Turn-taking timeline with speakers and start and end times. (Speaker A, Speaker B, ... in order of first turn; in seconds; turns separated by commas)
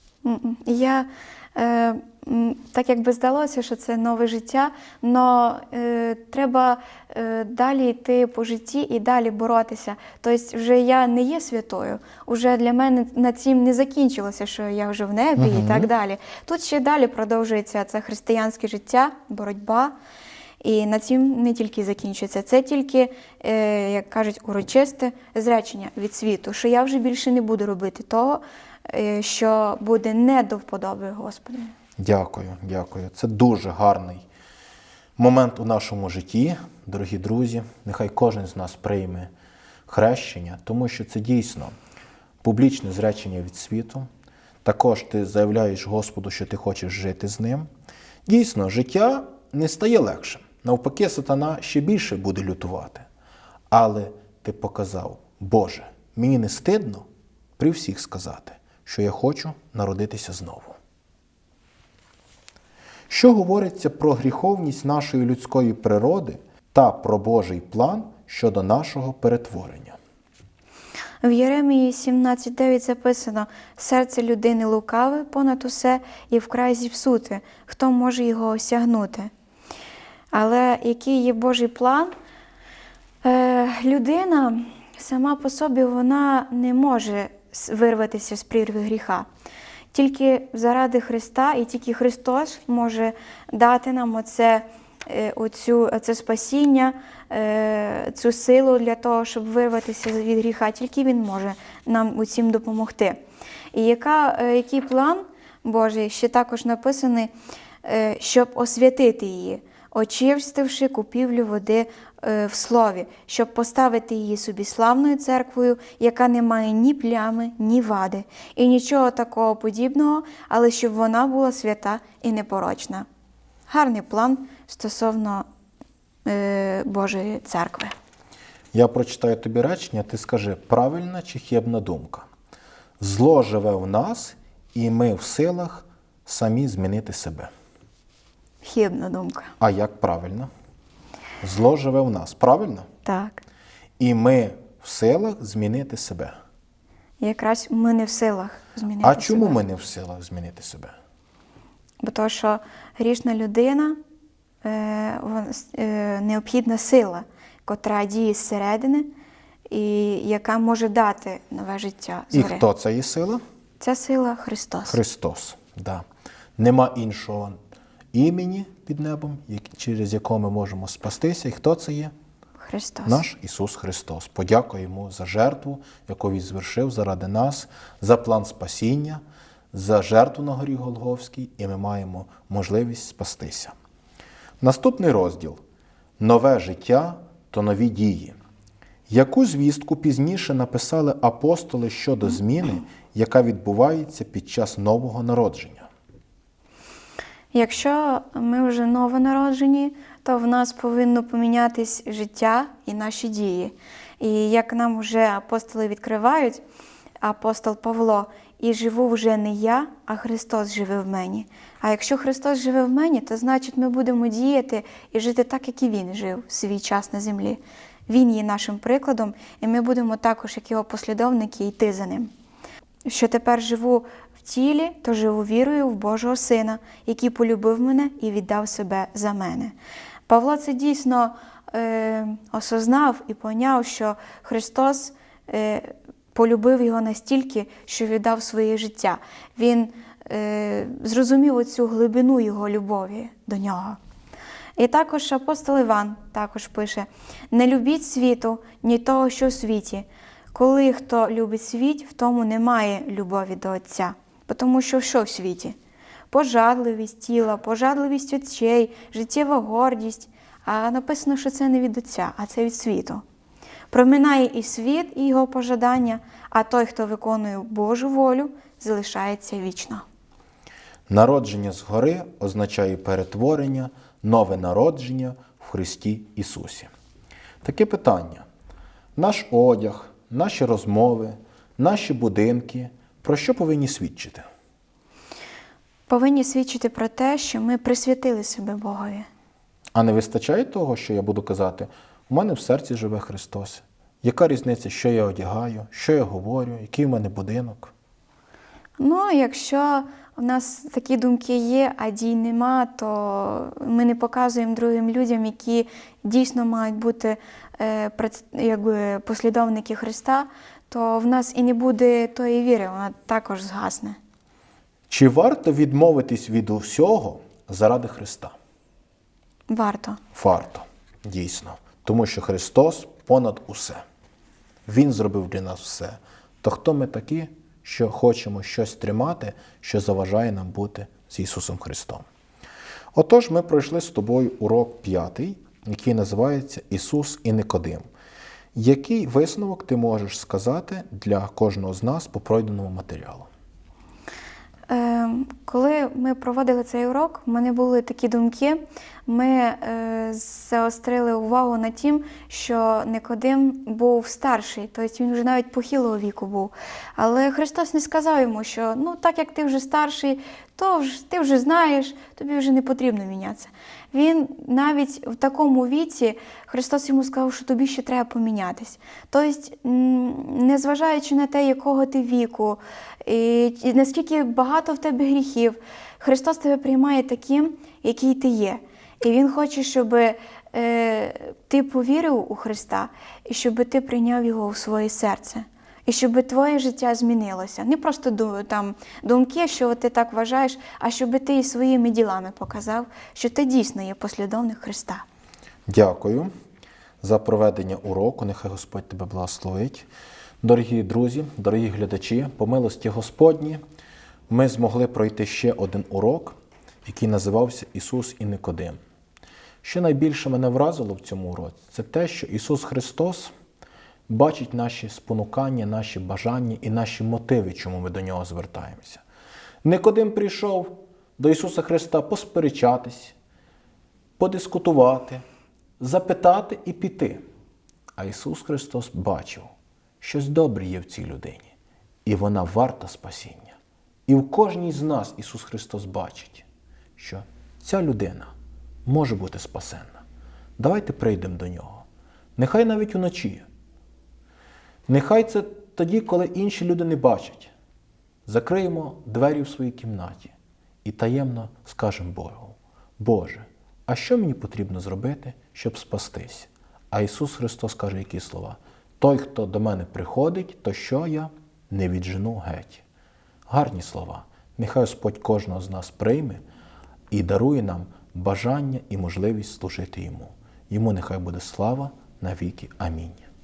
Speaker A: 0.2-19.9, Speaker B: 15.4-15.9, Speaker A: 20.6-31.7, Speaker B: 32.0-34.2, Speaker B: 35.2-39.3, Speaker B: 39.9-41.7, Speaker B: 42.4-44.1, Speaker B: 44.6-47.7, Speaker B: 48.2-53.0, Speaker B: 53.7-57.0, Speaker B: 57.6-60.8, Speaker B: 63.1-70.0, Speaker A: 71.2-79.3, Speaker A: 80.3-82.1, Speaker A: 83.2-89.3, Speaker A: 89.9-103.2, Speaker A: 103.7-107.3, Speaker A: 107.8-123.0, Speaker A: 123.7-125.4, Speaker A: 126.2-127.9, Speaker B: 128.7-132.3, Speaker B: 133.0-137.5, Speaker A: 138.6-139.5, Speaker B: 139.6-140.5, Speaker B: 141.4-142.9, Speaker A: 143.0-143.4, Speaker B: 144.0-146.3, Speaker A: 147.2-149.6, Speaker B: 149.0-150.9, Speaker A: 152.0-154.0, Speaker A: 154.6-159.1, Speaker A: 159.7-162.6, Speaker B: 162.3-163.4, Speaker A: 163.8-165.0, Speaker B: 164.9-166.0, Speaker B: 166.6-167.6, Speaker B: 168.1-172.1, Speaker A: 172.6-173.2, Speaker B: 173.1-179.2, Speaker B: 179.7-183.7, Speaker B: 184.6-185.6, Speaker B: 186.2-188.3, Speaker B: 189.1-195.9, Speaker A: 197.5-206.6, Speaker A: 207.2-222.3, Speaker A: 223.1-229.7, Speaker A: 230.3-244.0, Speaker A: 244.8-255.8, Speaker A: 256.3-263.2, Speaker A: 263.9-270.0, Speaker B: 271.1-276.9, Speaker B: 277.6-278.4, Speaker B: 279.1-284.4, Speaker A: 286.1-289.3, Speaker B: 289.9-297.9, Speaker A: 299.0-314.2, Speaker B: 315.1-318.5, Speaker A: 319.7-320.2, Speaker B: 320.3-324.0, Speaker B: 324.9-332.2, Speaker B: 333.1-338.0, Speaker B: 338.7-343.5, Speaker A: 344.9-395.2, Speaker B: 395.9-396.5, Speaker B: 397.2-400.1, Speaker B: 400.6-403.8, Speaker B: 404.5-409.0, Speaker B: 409.8-413.5, Speaker B: 414.3-419.2, Speaker B: 419.8-423.3, Speaker B: 424.4-425.4, Speaker B: 426.0-427.4, Speaker B: 428.2-429.7, Speaker B: 430.2-431.7, Speaker B: 432.2-436.6, Speaker B: 437.2-438.5, Speaker B: 439.1-440.2, Speaker B: 440.8-442.0, Speaker B: 442.6-443.6, Speaker B: 445.1-447.7, Speaker B: 448.5-463.0, Speaker B: 463.7-466.6, Speaker B: 467.3-473.4